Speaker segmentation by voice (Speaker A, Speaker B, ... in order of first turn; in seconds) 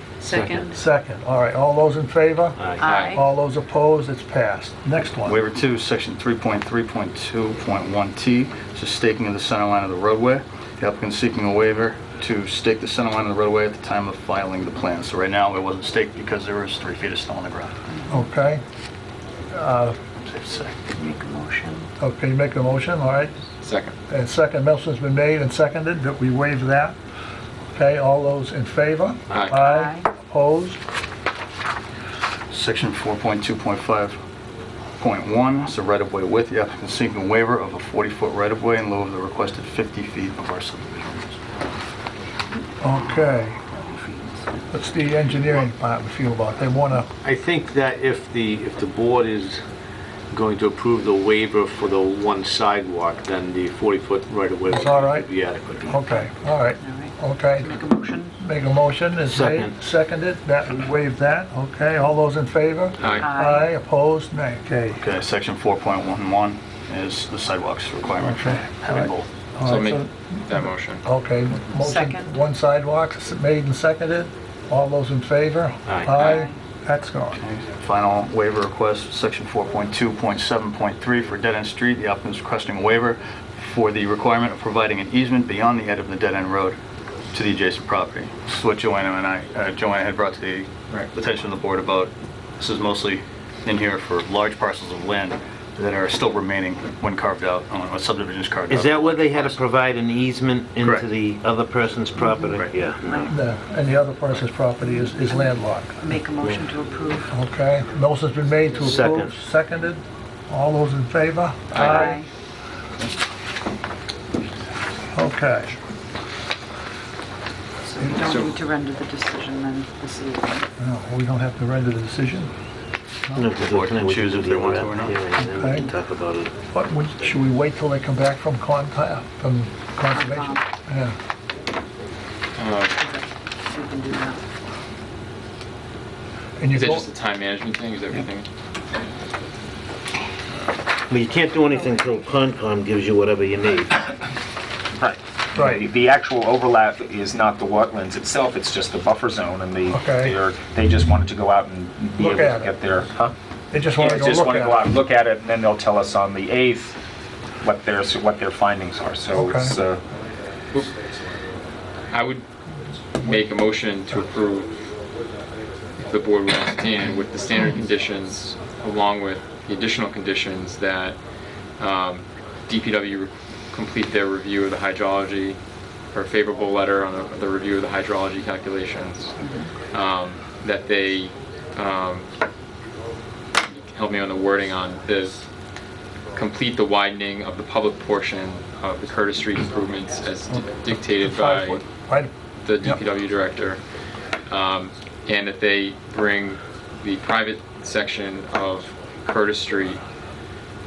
Speaker A: 0.2-0.8, 2.8-3.2, 17.9-18.3, 20.9-21.9, 29.6-30.1, 56.0-56.2, 56.8-58.3, 63.2-63.7, 71.7-72.4, 76.1-76.5, 102.2-103.3, 104.8-107.4, 111.9-112.3, 117.8-120.7, 130.1-130.7, 132.9-134.4, 141.5-142.4, 179.4-179.7
Speaker B: 0.5-5.4, 18.1-18.6, 19.5-20.0, 22.0-23.4, 24.1-27.0, 27.7-30.8, 42.8-43.6, 44.7-47.1, 54.7-55.3, 55.8-57.8, 58.4-65.0, 68.2-77.4, 103.3-106.0, 107.3-112.2, 115.1-115.8, 120.8-122.5, 125.4-125.9, 126.7-131.2, 136.6-137.1, 145.5-145.9, 149.9-150.4, 152.2-152.7, 153.7-154.8, 159.3-159.8, 190.5-193.0
Speaker C: 2.8-3.2, 23.6-23.9, 29.3-29.6, 63.0-63.2, 69.6-71.0, 111.7-112.2, 118.2-118.5, 132.6-133.0, 136.7-138.5, 162.1-162.4, 163.2-164.8, 166.0-171.2, 171.8-175.6, 176.1-179.4, 179.9-182.3, 183.6-185.4, 186.3-191.8, 192.6-193.8, 194.4-200.0
Speaker D: 5.2-17.7, 20.2-20.8, 32.5-34.2, 35.0-41.3, 65.0-69.3, 77.4-86.8, 87.3-99.6, 100.8-101.1, 123.4-125.2
Speaker E: 47.2-49.6, 50.3-56.0, 75.9-76.1
Speaker F: 59.3-59.7, 98.7-103.2, 108.8-109.3, 123.4-126.5, 141.1-143.9
Speaker G: 144.9-153.3, 153.9-157.0, 157.6-160.0